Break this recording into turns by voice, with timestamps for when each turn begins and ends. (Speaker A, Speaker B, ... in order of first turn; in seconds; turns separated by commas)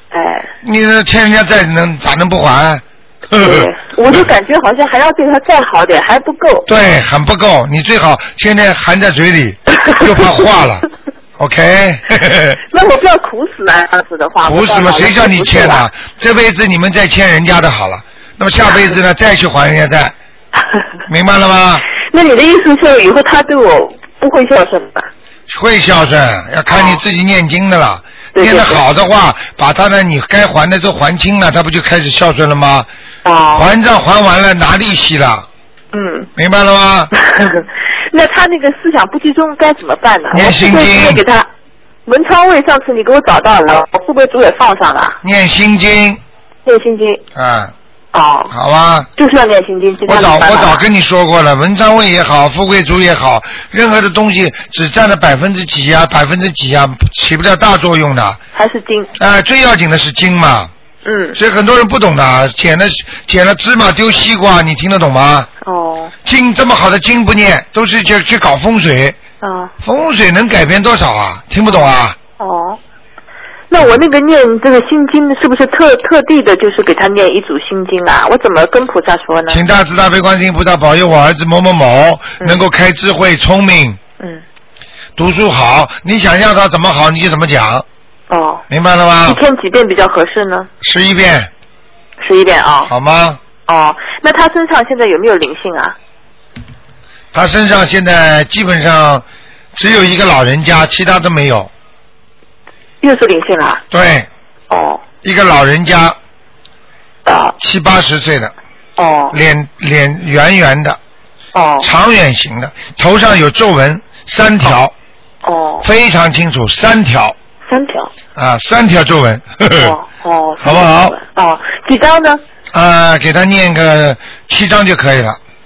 Speaker A: 0.1-0.5, Speaker B: 0.6-3.6, Speaker A: 3.3-6.7, Speaker B: 6.7-10.8, Speaker B: 11.4-12.6, Speaker A: 12.7-15.9, Speaker B: 14.4-20.1, Speaker B: 21.1-21.9, Speaker A: 22.1-25.1, Speaker B: 25.5-32.9, Speaker A: 26.7-27.0, Speaker A: 28.4-28.8, Speaker A: 33.2-33.7, Speaker B: 33.5-35.5, Speaker A: 35.9-36.3, Speaker B: 36.4-37.1, Speaker A: 37.1-41.5, Speaker B: 40.3-41.2, Speaker A: 42.1-45.2, Speaker B: 45.2-46.2, Speaker A: 46.6-47.2, Speaker B: 47.4-47.7, Speaker A: 48.1-48.5, Speaker B: 48.5-49.1, Speaker A: 49.2-50.9, Speaker B: 50.1-58.4, Speaker A: 58.5-59.1, Speaker B: 59.2-60.7, Speaker A: 61.0-61.4, Speaker B: 61.4-65.5, Speaker A: 65.6-66.1, Speaker B: 66.2-69.2, Speaker A: 69.4-69.7, Speaker B: 69.8-72.2, Speaker A: 72.4-72.8, Speaker A: 73.7-79.7, Speaker B: 79.5-84.0, Speaker B: 85.2-87.8, Speaker A: 88.3-88.6, Speaker B: 88.7-89.4, Speaker A: 89.3-90.7, Speaker B: 90.8-91.5, Speaker A: 92.2-92.9, Speaker B: 92.9-93.4, Speaker A: 93.7-96.0, Speaker B: 97.3-101.7, Speaker A: 103.0-103.8, Speaker B: 103.9-104.3, Speaker A: 104.7-105.0, Speaker B: 105.2-106.2, Speaker A: 107.3-107.5, Speaker B: 107.6-108.5, Speaker A: 109.0-109.4, Speaker B: 109.3-111.0, Speaker A: 111.5-111.9, Speaker B: 111.8-114.9, Speaker A: 115.4-115.9, Speaker B: 115.8-117.3, Speaker A: 117.7-118.1, Speaker B: 118.3-119.9, Speaker A: 119.7-122.4, Speaker B: 120.6-121.2, Speaker B: 122.7-125.4